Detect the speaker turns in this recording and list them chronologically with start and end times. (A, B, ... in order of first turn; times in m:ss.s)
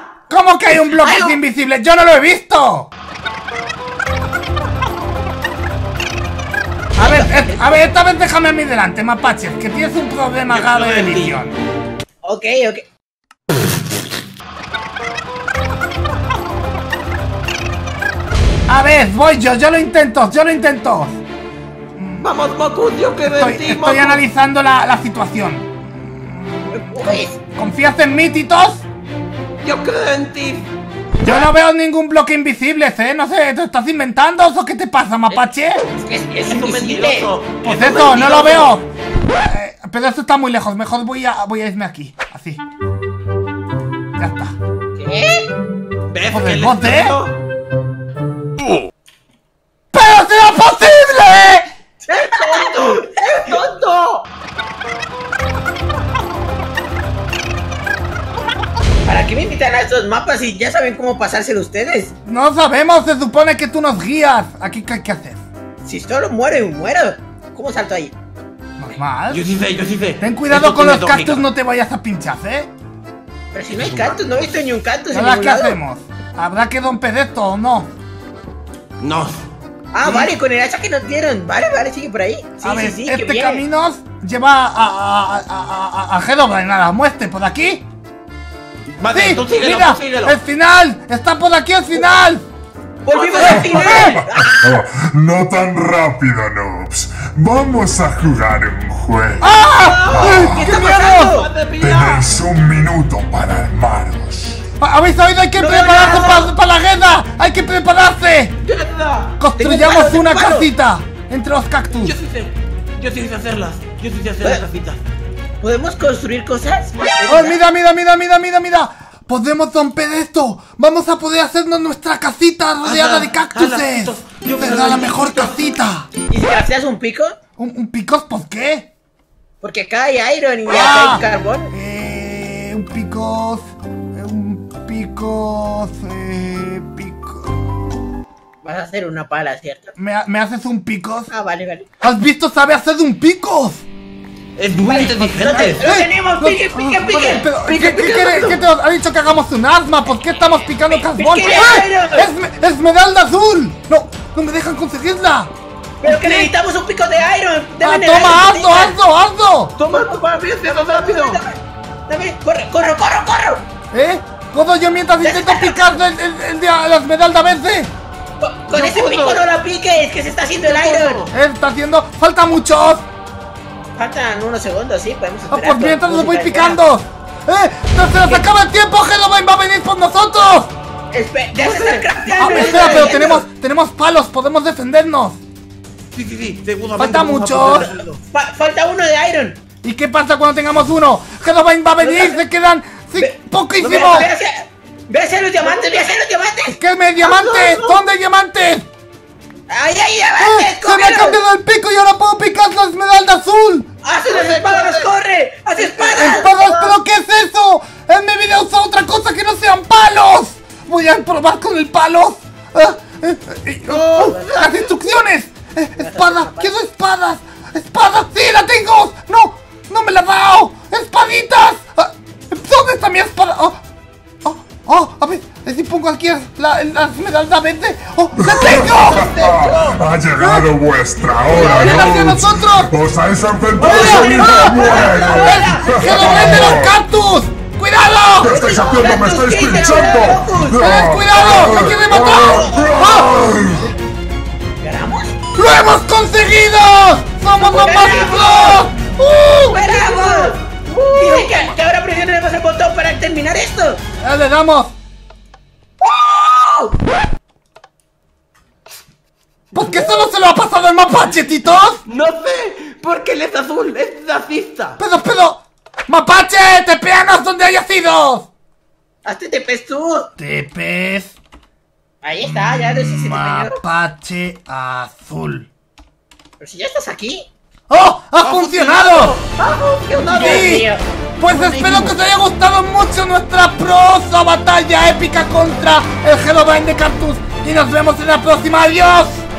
0:00.3-0:02.9 A
0:07.0-0:11.6 A
0:07.0-0:07.8 B
0:10.5-0:11.4 C
0:12.2-0:12.8 B
0:18.7-0:21.2 A
0:22.0-0:22.3 A
0:22.2-0:24.2 C
0:23.2-0:28.8 A
0:26.7-0:27.4 B
0:29.6-0:30.7 C
0:31.2-0:35.8 A
0:35.9-0:37.3 B
0:36.4-0:38.8 C
0:37.6-0:38.9 A
0:39.4-0:42.6 A
0:44.2-0:44.6 A
0:45.0-0:45.5 B
0:46.1-0:47.4 C
0:46.3-0:47.2 A
0:49.9-0:51.6 A
0:52.1-0:53.5 B
0:52.1-0:54.2 C
0:59.0-1:02.1 B
1:02.2-1:05.4 A
1:05.8-1:08.1 B
1:08.8-1:09.6 A
1:09.3-1:11.5 C
1:10.2-1:12.7 A
1:13.5-1:15.8 B
1:13.8-1:14.2 C
1:15.1-1:17.9 A
1:19.0-1:19.4 C
1:19.9-1:23.6 B
1:22.6-1:27.8 A
1:29.0-1:30.4 C
1:29.1-1:32.4 A
1:33.0-1:34.6 B
1:33.0-1:34.2 C
1:33.4-1:39.5 D
1:33.5-1:34.2 A
1:39.4-1:41.4 A
1:39.6-1:42.3 C
1:40.2-1:40.7 D
1:40.4-1:41.5 B
1:41.8-1:44.6 D
1:44.8-1:48.5 A
1:45.6-1:46.5 B
1:48.6-1:49.3 C
1:49.4-1:52.2 A
1:49.6-1:50.7 B
1:51.9-1:55.0 C
1:55.6-1:57.6 B
1:57.3-2:06.1 A
2:02.8-2:05.6 C
2:06.3-2:07.4 B
2:07.6-2:08.9 A
2:09.6-2:11.7 B
2:10.7-2:17.6 A
2:18.6-2:19.9 B
2:20.0-2:21.3 A
2:21.3-2:21.8 B
2:22.0-2:23.8 A
2:24.6-2:25.8 C
2:24.9-2:27.4 B
2:25.0-2:35.5 A
2:27.5-2:28.6 C
2:30.9-2:32.3 B
2:36.0-2:39.0 B
2:36.0-2:36.5 A
2:37.8-2:39.7 A
2:39.8-2:41.4 C
2:39.9-2:43.6 B
2:43.9-2:47.9 A
2:45.2-2:45.9 B
2:48.4-2:51.2 B
2:48.7-2:49.4 C
2:50.6-2:51.3 C
2:51.3-2:53.0 A
2:54.0-2:56.8 B
2:55.5-3:00.7 A
3:01.1-3:03.4 B
3:01.6-3:03.2 C
3:02.4-3:05.4 A
3:06.1-3:08.2 C
3:07.0-3:07.9 A
3:08.3-3:09.6 B
3:09.8-3:14.3 A
3:12.0-3:12.4 B
3:13.2-3:16.8 B
3:13.8-3:14.2 C
3:15.6-3:15.9 C
3:16.7-3:18.8 A
3:17.2-3:18.0 C
3:19.7-3:21.4 B
3:20.4-3:23.9 A
3:24.0-3:26.5 B
3:24.2-3:25.1 C
3:25.8-3:27.0 C
3:26.2-3:43.8 A
3:33.9-3:34.9 C
3:36.0-3:36.8 B
3:44.4-3:49.4 A
3:48.4-3:57.0 D
3:48.4-3:50.0 C
3:50.4-3:50.7 A
3:51.5-3:53.0 A
3:51.5-3:52.1 C
3:53.8-3:56.7 C
3:53.8-3:56.8 B
3:53.8-3:54.4 A
3:55.4-3:58.6 A
3:58.4-4:03.9 D
3:58.4-4:03.2 B
3:58.6-4:00.0 C
4:00.8-4:03.4 A
4:04.8-4:05.3 B
4:05.5-4:09.8 A
4:07.6-4:08.8 B
4:09.6-4:10.6 B
4:09.8-4:11.7 C
4:11.1-4:14.0 B
4:14.2-4:14.9 A
4:16.0-4:16.9 B
4:19.7-4:22.0 A
4:22.0-4:25.0 C
4:25.0-4:28.5 A
4:29.2-4:30.3 B
4:30.4-4:31.3 A
4:32.2-4:33.8 B
4:32.4-4:35.7 A
4:36.6-4:37.5 B
4:37.9-4:39.4 A
4:38.4-4:40.7 C
4:40.3-4:40.8 A
4:40.3-4:41.0 B
4:41.4-4:49.4 A
4:41.6-4:42.0 C